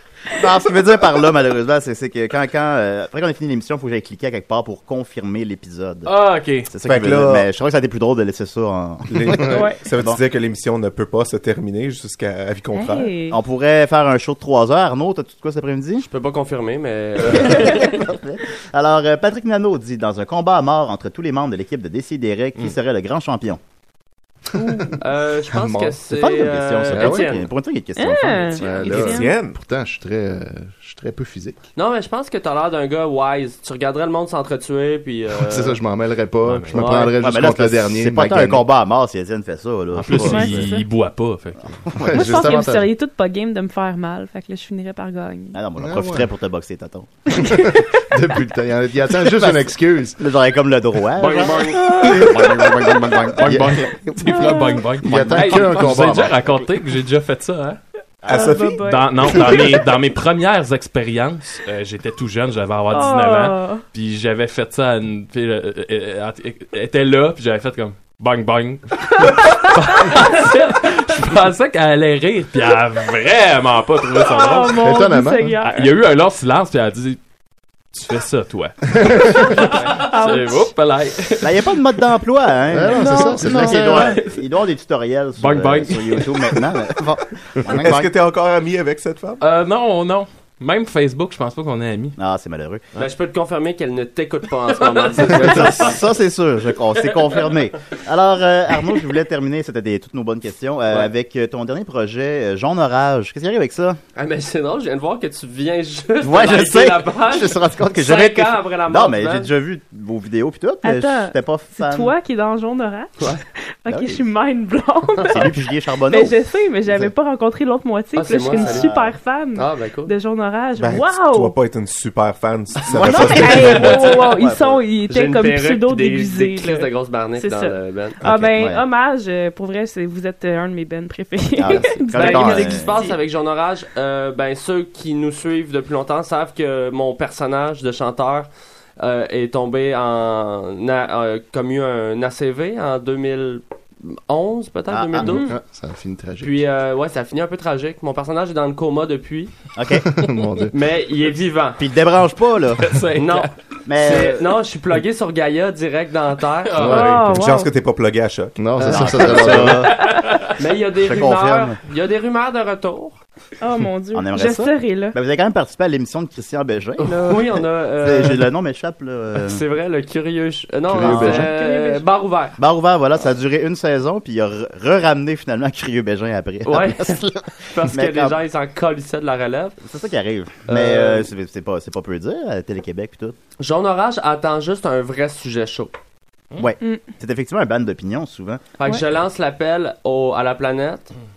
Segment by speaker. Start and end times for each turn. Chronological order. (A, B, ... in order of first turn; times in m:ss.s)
0:00.4-0:06.1 A
0:06.1-0:06.7 B
0:06.7-0:10.2 A
0:06.8-0:07.5 C
0:09.1-0:13.1 C
0:09.5-0:09.8 D
0:12.7-0:13.4 D
0:13.3-0:16.1 A
0:16.0-0:17.9 E
0:17.3-0:23.6 A
0:25.0-0:27.5 E
0:25.5-0:26.0 F
0:26.1-0:28.9 A
0:26.9-0:27.3 F
0:28.0-0:29.4 D
0:28.6-0:31.6 F
0:28.9-0:29.6 C
0:31.8-0:35.8 E
0:35.4-0:38.6 F
0:36.4-0:36.8 B
0:36.7-0:37.1 E
0:37.2-0:40.7 A
0:40.0-0:41.8 B
0:40.1-0:40.9 D
0:41.9-0:42.2 A
0:42.0-0:42.9 F
0:42.1-0:45.6 D
0:45.5-0:47.2 A
0:45.8-0:46.3 F
0:47.4-0:50.2 F
0:49.3-0:53.9 A
0:51.2-0:51.9 E
0:52.0-0:53.8 F
0:52.2-0:57.8 B
0:54.3-0:54.9 D
0:55.0-0:56.4 F
0:58.2-0:58.7 A
0:58.3-0:59.8 D
0:58.3-0:58.8 C
0:58.8-1:15.0 B
1:02.9-1:03.8 D
1:14.2-1:16.0 D
1:14.8-1:15.6 F
1:15.6-1:17.2 B
1:17.9-1:21.9 B
1:19.4-1:20.7 D
1:21.4-1:28.1 A
1:22.7-1:24.1 F
1:22.9-1:24.2 D
1:25.4-1:26.3 B
1:27.7-1:29.4 C
1:29.4-1:32.2 B
1:32.2-1:32.8 A
1:33.0-1:36.0 E
1:34.8-1:36.0 B
1:35.3-1:44.0 A
1:44.2-1:49.5 E
1:46.2-1:52.1 A
1:50.8-2:01.6 D
1:53.9-1:54.2 A
1:55.3-1:57.1 A
1:58.1-1:59.0 E
1:58.6-1:59.2 A
1:59.5-2:00.1 E
2:00.8-2:04.2 C
2:02.9-2:13.2 D
2:03.1-2:04.8 A
2:05.1-2:08.2 E
2:08.2-2:08.8 A
2:11.6-2:13.0 A
2:12.1-2:25.5 E
2:24.9-2:25.4 A
2:25.2-2:25.6 D
2:25.5-2:26.6 F
2:26.4-2:29.5 E
2:29.8-2:30.1 A
2:30.0-2:30.7 F
2:30.7-2:31.8 E
2:31.8-2:32.8 A
2:32.8-2:33.5 B
2:33.2-2:37.0 E
2:33.9-2:34.4 A
2:36.7-2:37.3 B
2:36.8-2:37.4 F
2:36.8-2:37.7 D
2:37.4-2:39.5 C
2:38.6-2:39.9 F
2:38.8-2:40.0 A
2:40.0-2:40.4 B
2:40.6-2:43.2 E
2:41.0-2:41.8 A
2:43.6-2:45.2 D
2:44.1-2:47.5 A
2:47.0-2:48.5 E
2:48.0-2:49.6 A
2:49.4-2:52.6 E
2:50.9-2:51.5 F
2:51.0-2:52.0 D
2:51.1-2:51.4 A
2:52.6-2:58.4 A
2:56.7-2:59.8 E
2:59.8-3:03.4 A
3:00.7-3:01.3 E
3:03.6-3:06.0 E
3:06.6-3:08.6 A
3:08.8-3:11.1 E